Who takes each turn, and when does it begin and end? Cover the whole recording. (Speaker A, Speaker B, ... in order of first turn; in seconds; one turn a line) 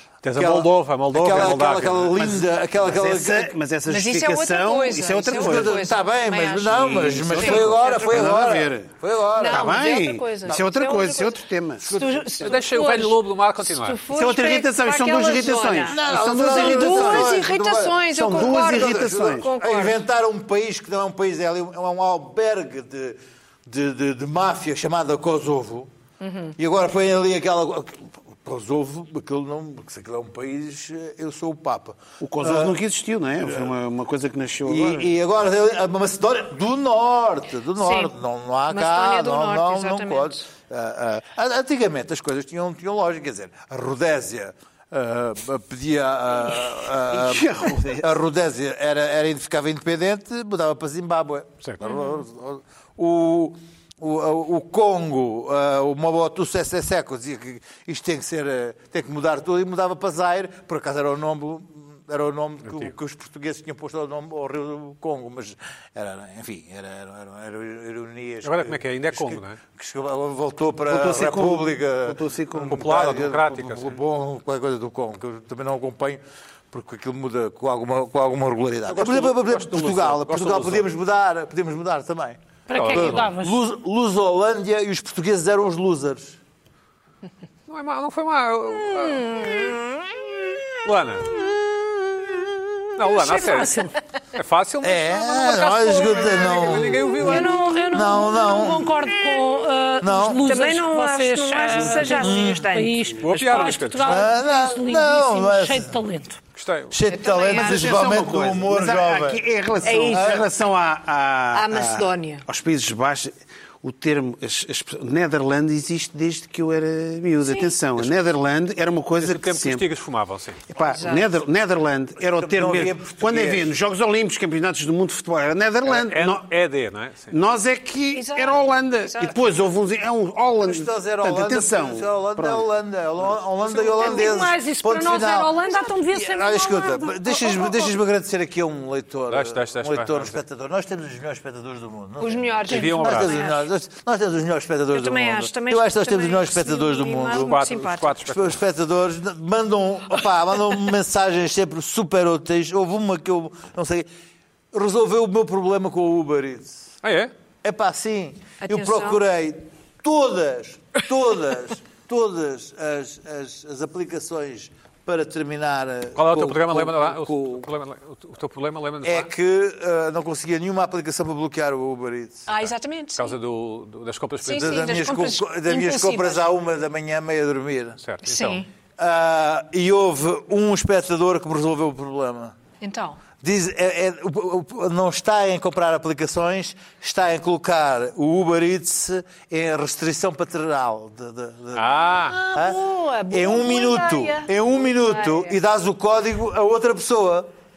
Speaker A: 0.2-2.2
Speaker B: 0.3-3.5
Speaker C: 2.2-5.8
Speaker D: 3.9-8.2
Speaker B: 5.3-9.8
Speaker C: 6.8-8.9
Speaker A: 7.3-7.7
Speaker D: 9.4-20.0
Speaker C: 9.5-11.9
Speaker B: 11.8-12.5
Speaker A: 12.4-14.0
Speaker C: 14.1-17.5
Speaker B: 15.9-25.9
Speaker C: 18.1-19.5
Speaker D: 26.2-26.5
Speaker B: 26.6-32.8
Speaker C: 32.2-35.1
Speaker B: 33.4-33.8
Speaker B: 34.6-86.4
Speaker D: 37.8-38.1
Speaker D: 38.7-40.5
Speaker C: 47.1-48.1
Speaker D: 51.8-52.2
Speaker A: 68.4-69.6
Speaker C: 70.9-72.8
Speaker A: 72.6-74.0
Speaker A: 78.9-80.9
Speaker E: 82.7-83.6
Speaker A: 82.7-83.3
Speaker A: 87.7-89.6
Speaker D: 89.3-89.7
Speaker A: 90.8-91.3
Speaker B: 91.3-92.4
Speaker A: 93.0-93.7
Speaker E: 93.1-94.0
Speaker A: 94.4-97.7
Speaker B: 94.8-99.1
Speaker D: 97.2-98.3
Speaker E: 97.2-106.4
Speaker B: 100.0-100.5
Speaker D: 100.4-103.8
Speaker B: 102.1-102.6
Speaker A: 103.2-104.3
Speaker B: 104.0-106.0
Speaker A: 106.5-107.0
Speaker B: 106.9-109.4
Speaker D: 107.1-108.2
Speaker C: 107.4-119.9
Speaker D: 109.8-110.5
Speaker B: 110.1-110.5
Speaker D: 111.5-112.5
Speaker D: 117.4-117.8
Speaker A: 119.2-120.6
Speaker C: 120.7-126.5
Speaker D: 120.8-121.3
Speaker B: 122.4-123.7
Speaker A: 125.8-127.3
Speaker C: 127.3-132.6
Speaker D: 128.1-129.5
Speaker B: 130.6-147.7
Speaker E: 133.9-137.9
Speaker A: 139.3-140.4
Speaker D: 142.2-143.7
Speaker A: 142.7-143.4
Speaker D: 144.9-148.2
Speaker A: 147.3-148.6
Speaker B: 148.2-154.1
Speaker B: 154.7-157.0
Speaker A: 157.0-157.3
Speaker B: 157.6-167.7
Speaker D: 158.6-159.2
Speaker A: 166.2-169.3
Speaker B: 169.0-172.5
Speaker D: 172.5-173.4
Speaker A: 173.2-175.0
Speaker D: 174.4-176.5
Speaker B: 174.5-178.0
Speaker A: 178.0-178.7
Speaker D: 178.2-178.7
Speaker B: 179.0-182.6
Speaker D: 182.8-183.2
Speaker B: 183.4-197.5
Speaker A: 191.8-192.4
Speaker D: 192.2-195.5